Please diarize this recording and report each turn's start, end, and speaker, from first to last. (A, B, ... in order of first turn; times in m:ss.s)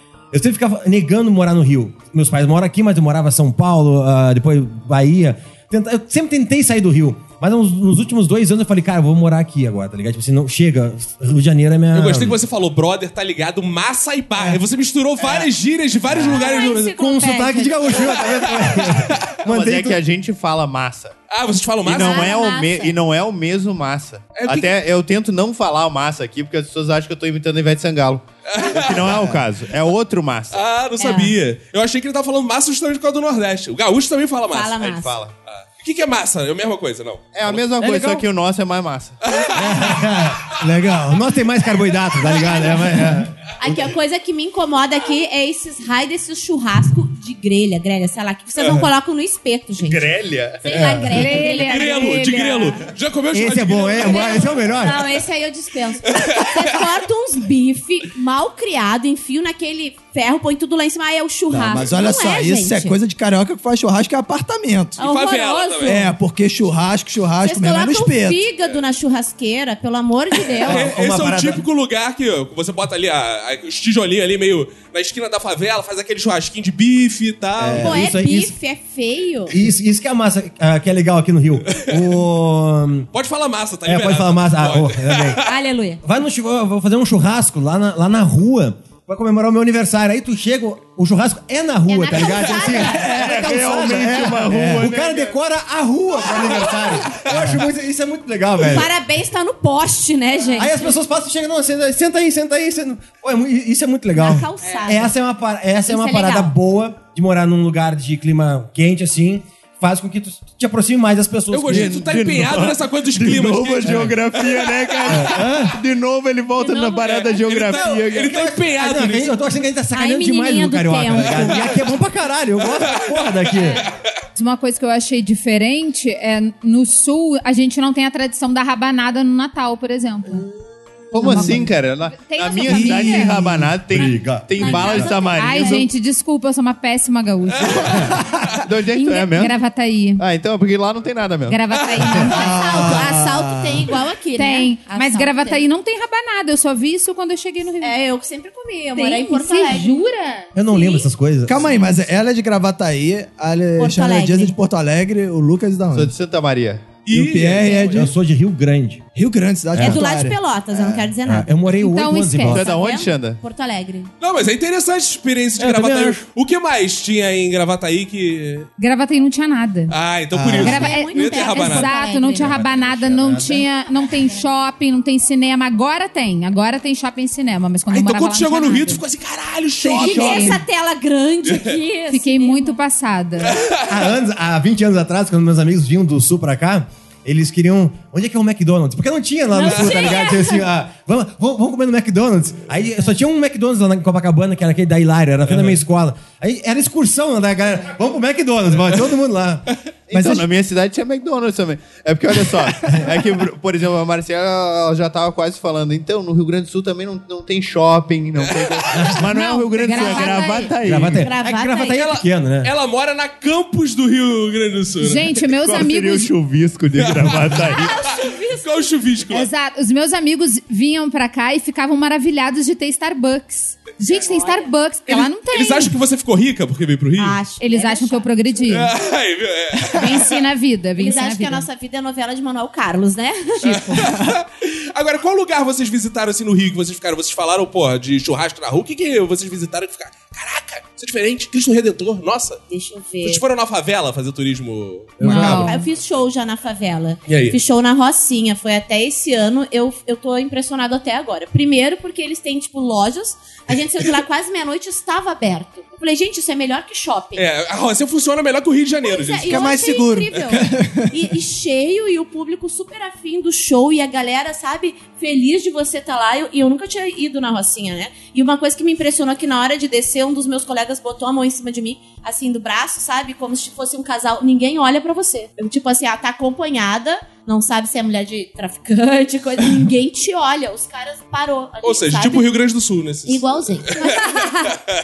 0:00.3-0:12.4 A
0:11.9-0:17.0 B
0:16.1-0:20.0 A
0:16.2-0:17.7 C
0:18.0-0:19.4 B
0:19.4-0:21.1 D
0:21.3-0:22.4 B
0:21.8-0:30.6 D
0:21.9-0:22.9 C
0:24.4-0:24.8 B
0:28.5-0:29.3 B
0:30.5-0:37.6 B
0:31.0-0:31.4 C
0:34.5-0:35.2 C
0:34.9-0:35.3 D
0:37.4-0:39.2 D
0:37.8-0:38.2 A
0:39.2-0:40.0 B
0:39.5-0:43.4 A
0:43.6-0:50.1 C
0:49.8-0:51.2 D
0:50.6-0:52.0 C
0:51.1-0:52.8 E
0:51.4-0:54.7 B
0:53.3-0:55.0 A
0:54.0-1:03.0 C
0:56.1-0:56.8 B
1:01.5-1:05.0 F
1:05.0-1:06.1 C
1:05.0-1:06.1 B
1:05.8-1:08.5 F
1:07.4-1:10.8 C
1:10.6-1:18.0 B
1:10.6-1:11.6 A
1:17.6-1:18.0 F
1:17.6-1:18.5 A
1:17.8-1:19.6 C
1:19.5-1:23.1 A
1:23.1-1:25.4 B
1:23.8-1:25.4 A
1:25.4-1:26.0 C
1:26.0-1:38.9 A
1:31.9-1:33.1 C
1:33.0-1:34.9 F
1:33.1-1:35.4 D
1:38.7-1:40.9 C
1:40.6-1:52.0 A
1:44.2-1:45.1 C
1:45.9-1:46.6 C
1:51.5-1:55.4 B
1:51.7-1:58.3 D
1:53.8-1:54.2 A
1:55.1-1:55.8 A
1:56.6-1:57.5 C
1:57.2-1:59.4 B
1:57.7-2:03.8 A
1:59.9-2:01.7 C
2:02.8-2:03.3 B
2:04.4-2:10.5 E
2:11.1-2:15.9 D
2:11.2-2:11.6 F
2:11.2-2:13.4 E
2:12.7-2:13.7 F
2:13.7-2:15.2 A
2:14.5-2:15.8 C
2:15.4-2:18.1 E
2:18.6-2:19.5 D
2:19.0-2:20.2 E
2:20.2-2:21.6 D
2:21.5-2:22.6 E
2:22.3-2:25.6 C
2:22.3-2:23.8 F
2:24.4-2:28.0 E
2:27.8-2:30.0 C
2:29.0-2:30.5 E
2:30.6-2:32.0 A
2:30.7-2:31.0 C
2:31.5-2:36.1 F
2:33.8-2:34.6 C
2:35.9-2:37.0 D
2:37.0-2:37.9 B
2:37.1-2:38.1 F
2:37.7-2:38.0 C
2:37.9-2:39.0 A
2:39.1-2:41.0 F
2:39.8-2:41.8 C
2:41.2-2:42.7 A
2:41.8-2:42.6 E
2:42.5-2:44.1 C
2:42.5-2:43.4 D
2:44.2-2:48.7 B
2:45.6-2:46.2 A
2:48.8-2:49.9 E
2:49.9-2:51.9 B
2:50.4-2:50.6 F
2:50.6-2:59.0 E
2:50.6-2:52.5 C
2:52.4-2:53.7 A
2:57.9-3:00.5 B
2:59.8-3:00.6 F
3:00.0-3:02.8 C
3:00.1-3:00.6 E
3:01.5-3:01.8 B
3:02.1-3:03.6 E
3:03.6-3:03.8 B
3:03.9-3:19.7 A
3:09.5-3:10.6 C
3:20.1-3:31.3 D
3:22.9-3:23.1 A
3:28.9-3:29.3 A
3:29.3-3:30.7 E
3:30.0-3:30.4 C
3:30.8-3:32.7 A
3:31.2-3:32.2 C
3:32.6-3:35.4 B
3:35.0-3:36.3 E
3:35.6-3:37.9 D
3:37.0-3:39.5 B
3:37.6-3:38.9 C
3:39.3-3:45.9 E
3:44.0-3:44.7 C
3:45.1-3:47.4 B
3:47.2-3:48.6 C
3:47.6-3:48.9 E
3:48.7-3:50.3 B
3:49.9-3:51.7 E
3:51.0-3:54.2 C
3:53.6-4:02.6 B
4:02.7-4:03.4 C
4:03.2-4:05.6 B
4:05.2-4:05.8 E
4:05.2-4:05.6 A
4:05.2-4:05.5 F
4:05.4-4:17.5 C
4:07.3-4:07.6 B
4:17.4-4:19.8 B
4:19.0-4:42.6 C
4:19.5-4:21.2 F
4:20.3-4:20.6 B
4:41.8-4:44.3 B
4:43.3-4:44.8 C